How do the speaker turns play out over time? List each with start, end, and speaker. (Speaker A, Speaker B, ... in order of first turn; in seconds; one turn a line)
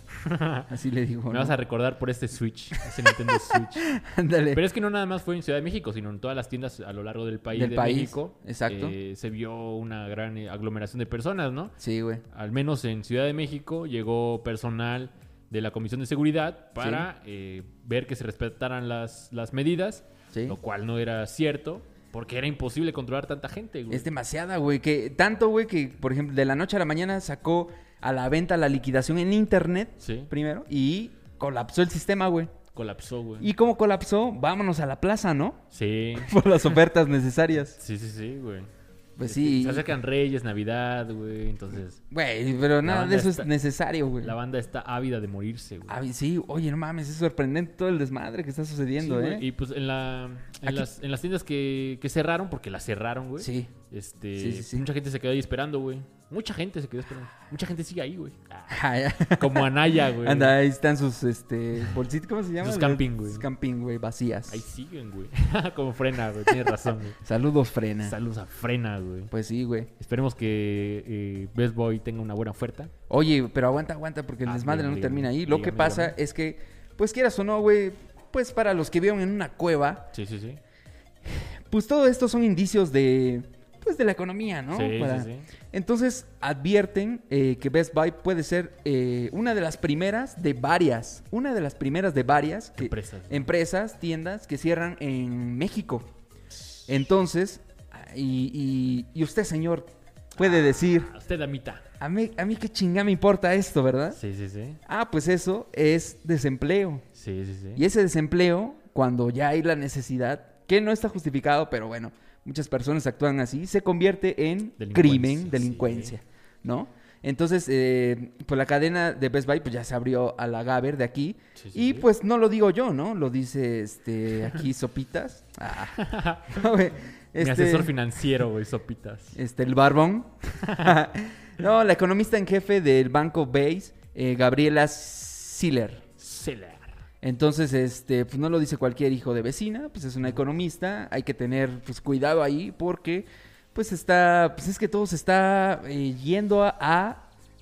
Speaker A: 0.2-0.7
Speaker B: 0.7-1.6
Speaker A: 1.3-3.9
Speaker B: 3.5-4.6
Speaker A: 4.5-11.7
Speaker B: 7.5-8.9
Speaker B: 11.8-12.2
Speaker A: 12.3-24.1
Speaker B: 16.8-17.1
Speaker B: 23.9-32.5
Speaker A: 30.0-30.3
Speaker A: 32.7-33.5
Speaker B: 33.4-35.6
Speaker A: 35.7-36.7
Speaker B: 36.2-37.8
Speaker A: 37.8-38.7
Speaker B: 39.2-39.9
Speaker A: 39.2-42.0
Speaker B: 42.1-44.3
Speaker A: 42.8-43.5
Speaker A: 44.2-46.0
Speaker B: 45.9-49.4
Speaker A: 49.0-58.8
Speaker B: 53.4-53.7
Speaker B: 54.4-54.9
Speaker B: 58.7-64.6
Speaker A: 59.3-60.6
Speaker A: 62.6-63.5
Speaker A: 64.5-67.2
Speaker B: 67.2-68.2
Speaker A: 68.0-69.3
Speaker B: 69.3-69.9
Speaker A: 70.0-72.9
Speaker B: 73.1-80.1
Speaker A: 74.4-76.1
Speaker A: 80.1-80.6
Speaker B: 81.2-96.1
Speaker A: 84.7-85.5
Speaker A: 92.8-93.5
Speaker B: 96.9-101.1
Speaker A: 100.4-101.8
Speaker B: 102.0-104.2
Speaker A: 104.1-104.8
Speaker B: 104.9-107.0
Speaker A: 107.1-107.8
Speaker B: 107.8-127.9
Speaker A: 114.8-116.2
Speaker A: 121.5-122.1
Speaker A: 126.0-126.5
Speaker A: 127.4-129.4
Speaker B: 129.3-136.0
Speaker A: 130.6-130.9
Speaker A: 136.2-137.0
Speaker B: 137.2-147.3